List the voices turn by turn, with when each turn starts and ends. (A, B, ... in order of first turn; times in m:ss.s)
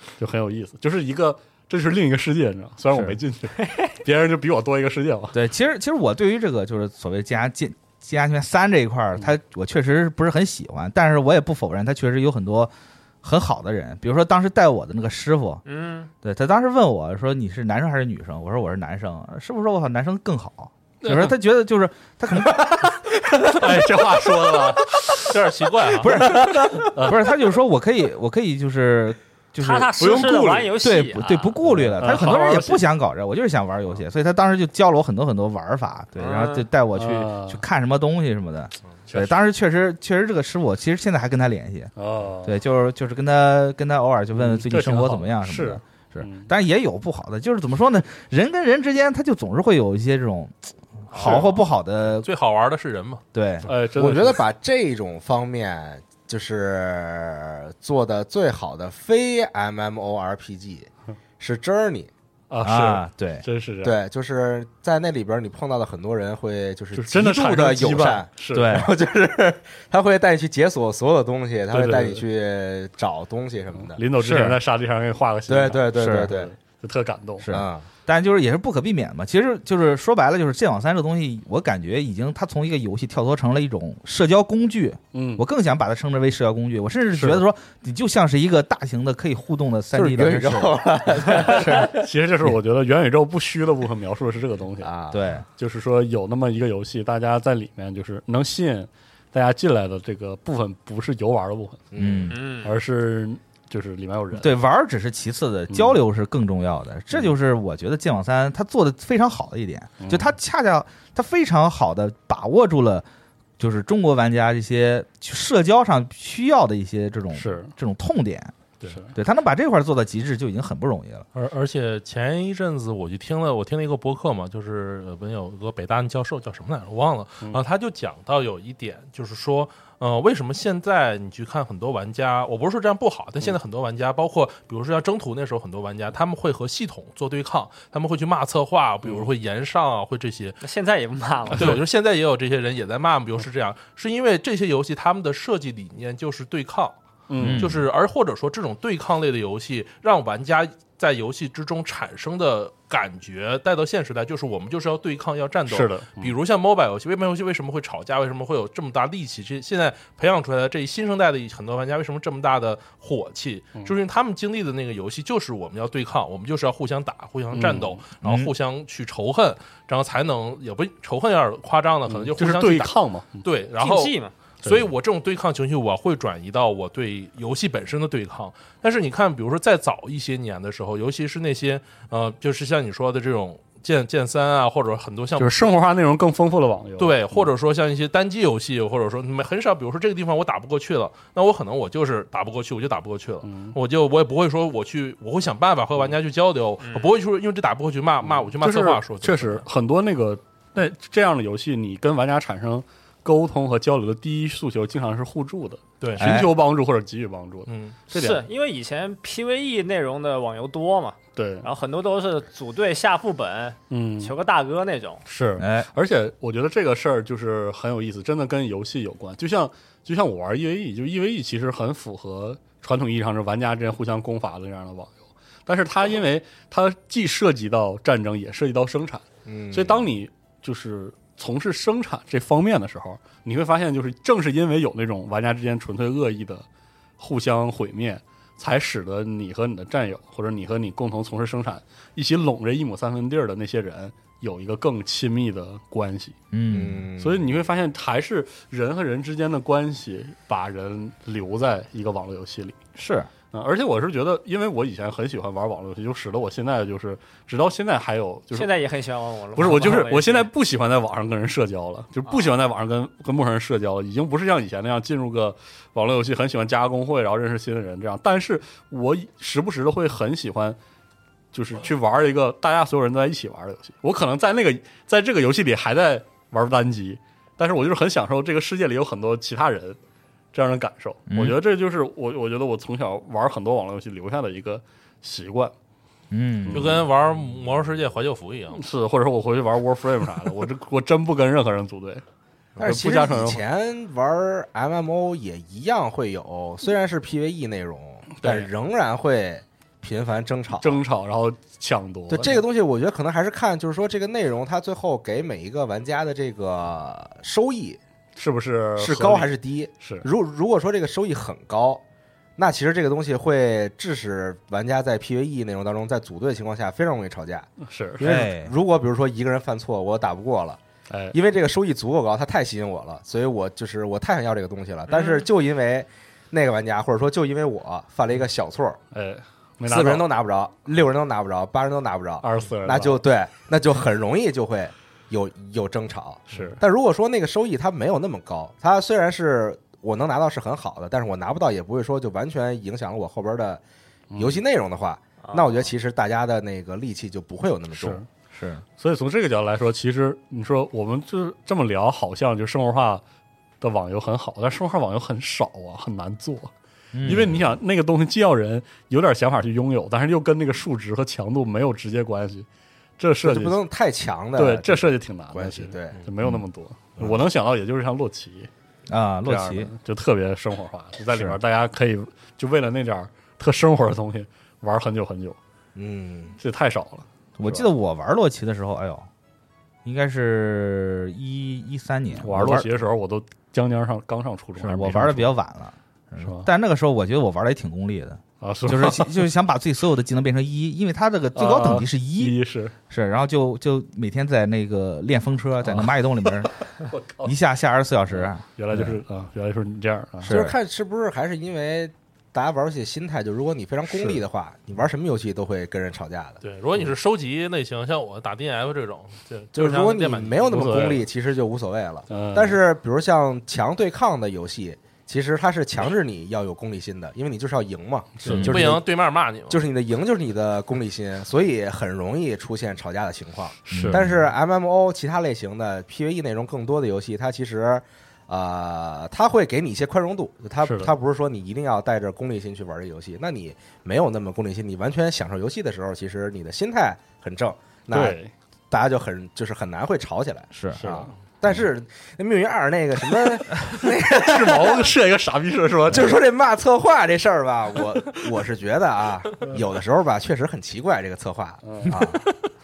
0:00.2-0:05.4 A
0:02.9-0:03.2 B
0:03.6-0:03.9 C
0:05.3-0:12.7 B
0:13.2-0:15.6 B
0:15.7-0:16.1 C
0:16.2-0:22.9 B
0:21.0-0:21.4 A
0:22.8-0:25.4 A
0:25.1-0:26.5 D
0:26.0-0:41.9 B
0:26.8-0:27.3 A
0:29.6-0:31.5 C
0:30.0-0:30.6 A
0:31.6-0:32.8 A
0:36.2-0:36.7 C
0:37.0-0:37.6 A
0:39.1-0:39.4 A
0:42.0-0:42.6 A
0:42.4-0:52.3 B
0:44.4-0:46.5 A
0:51.1-0:51.6 D
0:52.1-0:53.2 D
0:53.3-0:53.7 B
0:53.6-0:54.4 A
0:53.9-1:02.1 E
1:02.5-1:04.0 A
1:02.6-1:03.4 B
1:03.8-1:14.1 E
1:06.9-1:08.8 A
1:08.5-1:08.9 B
1:11.7-1:12.2 A
1:13.8-1:17.5 A
1:14.2-1:14.6 B
1:15.5-1:16.5 E
1:16.0-1:16.3 B
1:17.4-1:31.9 B
1:17.5-1:17.9 E
1:25.1-1:25.4 A
1:27.1-1:27.4 A
1:29.9-1:32.1 E
1:31.5-1:35.0 A
1:34.8-1:35.2 E
1:35.1-1:35.4 B
1:35.6-1:41.9 A
1:41.9-1:42.4 E
1:42.0-1:42.4 B
1:42.3-1:42.8 C
1:42.6-1:44.5 A
1:44.3-1:53.1 B
1:45.7-1:46.0 A
1:50.0-1:50.3 A
1:53.6-1:58.6 B
1:57.4-1:57.7 A
1:58.8-1:59.2 A
1:59.1-2:01.2 B
2:01.3-2:20.6 D
2:20.6-2:21.8 C
2:21.6-2:27.0 D
2:27.3-2:27.7 A
2:27.4-2:27.8 B
2:27.6-3:05.6 D
2:35.7-2:36.4 A
2:47.5-2:48.0 A
2:48.2-2:48.5 B
2:52.1-2:53.5 A
2:53.8-2:54.3 C
3:05.4-3:07.5 A
3:07.0-3:19.6 D
3:13.4-3:13.8 A
3:16.8-3:17.1 C
3:18.2-3:28.4 A
3:26.0-3:26.3 D
3:26.2-3:26.5 B
3:27.7-3:28.0 D
3:28.1-3:35.2 C
3:31.4-3:31.7 A
3:33.9-3:34.3 A
3:35.3-3:56.6 A
3:35.6-3:35.9 B
3:49.5-3:50.1 E
3:57.2-4:06.4 A
4:06.5-4:07.0 B
4:06.7-4:07.6 E
4:07.2-4:12.8 A
4:13.0-4:13.3 B
4:13.4-4:18.7 A
4:18.5-4:20.5 C
4:19.6-4:30.8 A
4:31.5-4:40.0 A
4:40.5-4:45.7 A
4:41.3-4:41.6 B
4:46.3-4:47.0 B
4:46.7-4:47.1 A
4:46.7-4:48.8 D
4:48.7-4:52.2 A
4:52.8-5:01.0 E
4:52.8-4:53.6 A
4:58.4-4:58.7 A
5:00.8-5:02.6 A
5:02.3-5:08.0 E
5:08.4-5:10.3 A
5:09.0-5:12.0 E
5:12.6-5:20.8 E
5:17.8-5:18.2 A
5:18.2-5:18.7 B
5:21.1-5:21.4 A
5:21.3-5:29.0 E
5:25.1-5:25.4 C
5:29.1-5:30.3 A
5:29.8-5:43.8 E
5:32.4-5:33.2 A
5:36.5-5:36.8 A
5:44.3-5:44.6 A
5:44.4-5:48.2 E
5:45.4-5:45.7 C
5:47.9-5:48.3 A
5:48.5-5:48.8 B
5:49.0-5:53.2 A
5:53.8-5:56.7 A
5:57.1-5:57.6 B
5:57.2-6:02.7 A
6:03.2-6:03.8 A
6:03.4-6:06.2 E
6:04.6-6:08.7 A
6:07.2-6:07.4 E
6:09.1-6:09.9 B
6:09.4-6:15.6 A
6:11.3-6:11.6 B
6:16.0-6:16.6 E
6:16.6-6:17.9 A
6:17.6-6:19.3 B
6:20.0-6:22.9 B
6:22.4-6:25.5 A
6:24.8-6:32.6 B
6:26.4-6:26.7 A
6:28.6-6:29.4 A
6:31.6-6:32.9 A
6:33.1-6:36.7 B
6:35.9-6:37.6 A
6:37.4-6:39.2 B
6:38.3-6:40.6 A
6:40.4-6:40.8 B
6:40.5-6:46.6 E
6:46.6-6:50.8 D
6:49.8-6:59.0 E
6:50.7-6:51.2 A
6:52.3-6:52.8 A
6:58.4-6:59.0 A
6:58.5-6:58.8 B
6:58.5-6:59.8 D
6:59.7-7:18.4 E
7:03.9-7:04.3 A
7:03.9-7:04.4 B
7:10.8-7:11.1 A
7:18.1-7:18.5 A
7:18.9-7:25.1 E
7:20.7-7:21.1 B
7:21.0-7:21.3 A
7:23.3-7:26.4 A
7:26.1-7:32.5 E
7:31.8-7:32.2 A